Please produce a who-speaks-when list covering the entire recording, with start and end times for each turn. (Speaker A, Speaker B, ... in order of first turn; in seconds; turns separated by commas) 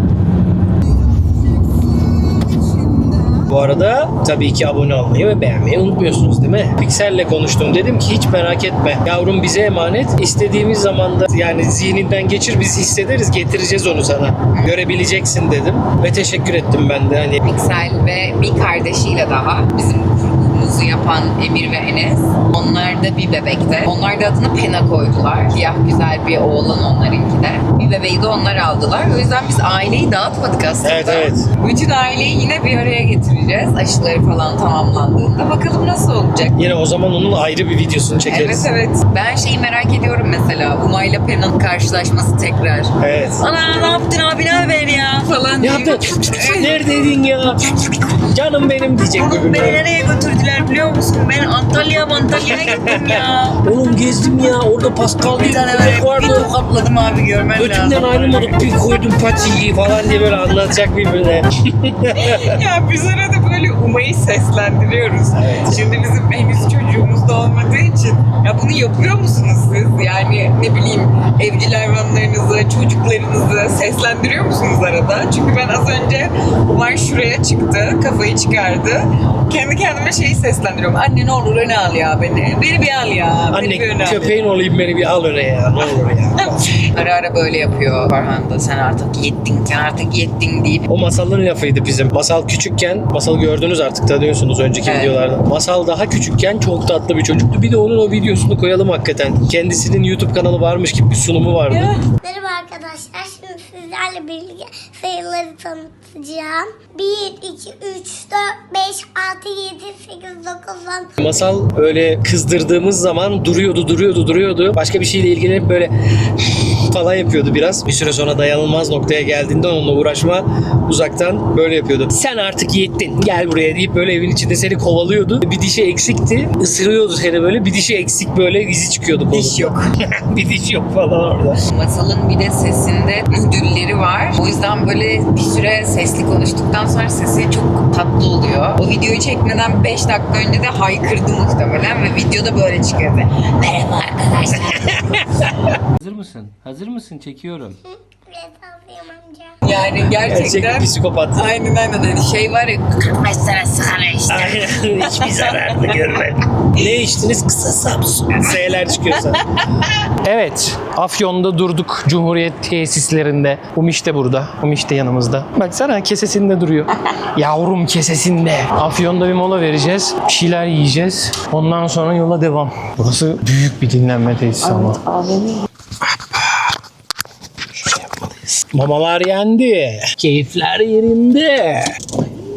Speaker A: 3.4-17.4, Speaker B: 17.4-36.5, Speaker A: 30.8-31.5, Speaker A: 36.5-38.7, Speaker B: 38.2-47.0, Speaker A: 43.0-43.4, Speaker A: 45.6-49.8, Speaker B: 49.1-53.6, Speaker A: 52.4-56.5, Speaker B: 55.2-58.5, Speaker A: 57.5-62.4, Speaker B: 62.1-84.3, Speaker A: 65.4-65.8, Speaker A: 83.5-86.6, Speaker B: 86.4-90.9, Speaker A: 90.9-102.0, Speaker B: 94.8-95.2, Speaker C: 102.2-111.1, Speaker A: 111.2-131.6, Speaker B: 129.3-129.9, Speaker B: 131.7-145.4, Speaker A: 144.7-147.8, Speaker C: 148.3-149.5, Speaker B: 149.6-155.8, Speaker A: 150.0-151.4, Speaker A: 154.3-159.4, Speaker A: 160.2-175.0, Speaker B: 174.6-175.7, Speaker A: 176.2-176.7, Speaker A: 177.8-182.0